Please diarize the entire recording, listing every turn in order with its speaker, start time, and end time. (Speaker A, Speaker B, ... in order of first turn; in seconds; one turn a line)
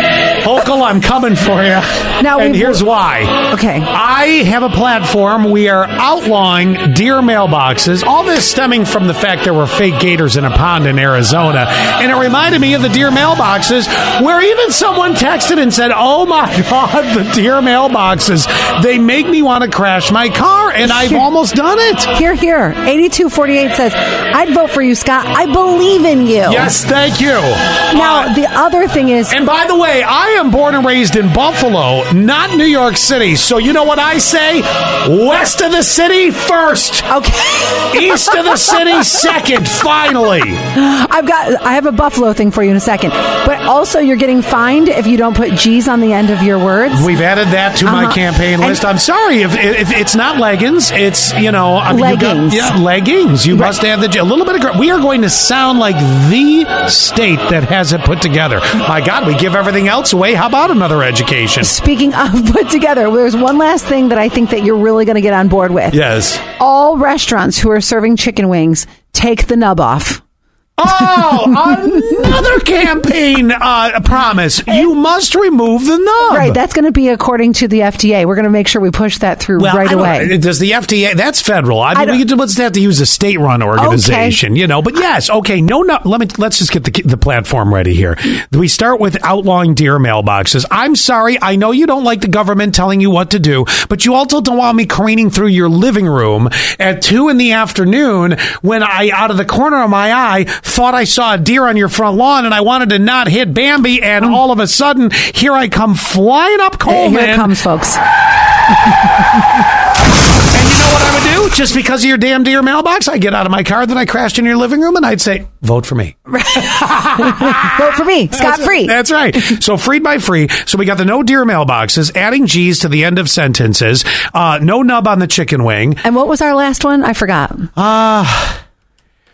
Speaker A: 0.4-22.1
Speaker B: 2.2-2.8
Speaker B: 3.5-3.9
Speaker B: 20.8-21.2
Speaker B: 22.1-26.7
Speaker A: 26.4-28.3
Speaker B: 27.9-29.4
Speaker A: 29.3-37.1
Speaker B: 37.1-39.2
Speaker A: 37.9-40.6
Speaker B: 40.7-47.1
Speaker A: 46.9-61.7
Speaker B: 47.8-48.8
Speaker B: 51.9-52.7
Speaker B: 61.6-66.0
Speaker A: 65.9-66.4
Speaker B: 66.5-70.2
Speaker A: 70.8-76.6
Speaker B: 71.0-72.3
Speaker B: 76.2-80.3
Speaker A: 79.6-107.5
Speaker B: 81.9-82.2
Speaker B: 83.8-84.4
Speaker B: 106.8-108.0
Speaker A: 110.5-126.0
Speaker B: 116.3-119.0
Speaker B: 126.0-127.7
Speaker A: 127.8-128.6